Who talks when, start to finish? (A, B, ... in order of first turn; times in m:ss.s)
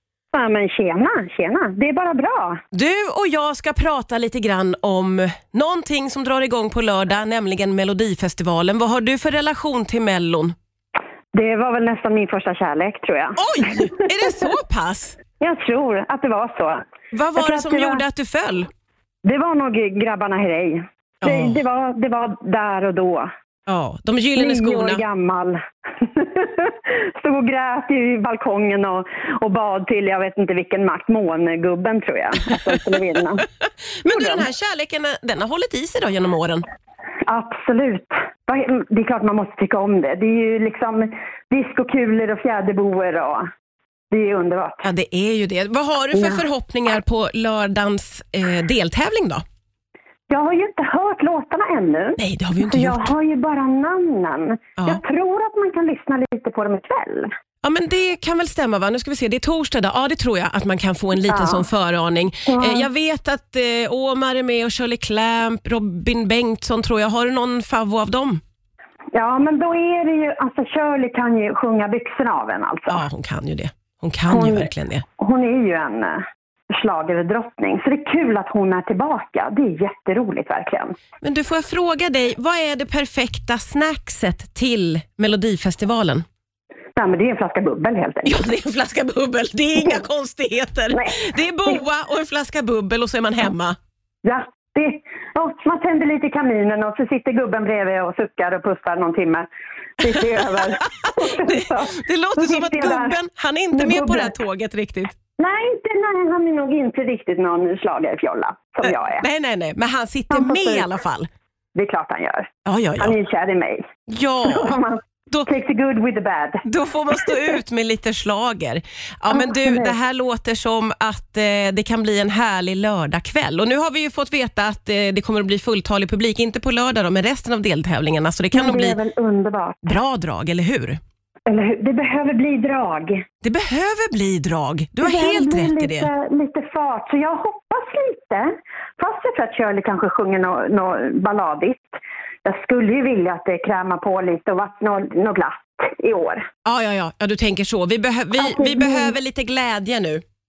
0:00.3-0:02.6 A
0:02.7-0:10.5 B
0:11.3-0:14.3 A
0:13.4-0:15.2 B
0:15.4-0:16.8 A
0:17.1-0:18.7 B
0:17.4-0:18.0 A
0:19.2-0:23.3 A
0:21.2-0:21.6 B
0:23.7-0:25.0 B
0:24.4-0:33.4 A
0:34.0-0:36.6 B
0:34.0-0:34.4 A
0:37.3-0:43.4 A
0:44.1-0:44.8 A
0:44.8-0:49.4 B
0:46.1-0:46.4 A
0:50.3-0:57.3 A
0:52.2-0:53.1 B
0:57.6-1:08.4 B
1:01.2-1:01.6 A
1:02.4-1:02.9 A
1:09.1-1:13.0 A
1:12.9-1:15.0 B
1:14.3-1:16.2 A
1:16.8-1:20.9 A
1:21.2-1:26.2 B
1:27.0-1:28.4 A
1:28.2-1:33.8 B
1:30.9-1:31.8 A
1:34.2-1:39.5 A
1:40.0-1:43.2 A
1:40.4-1:45.1 B
1:43.7-1:44.3 A
1:45.4-1:49.2 A
1:48.8-1:51.3 B
1:50.3-1:50.9 A
1:51.7-1:53.8 A
1:52.6-1:53.2 B
1:54.1-1:54.8 B
1:54.4-1:56.6 A
1:56.6-2:09.0 B
1:59.3-1:59.9 A
2:08.5-2:09.9 A
2:09.8-2:11.0 B
2:11.5-2:13.2 A
2:13.4-2:16.1 B
2:15.0-2:26.4 A
2:26.6-2:30.2 B
2:28.4-2:29.1 A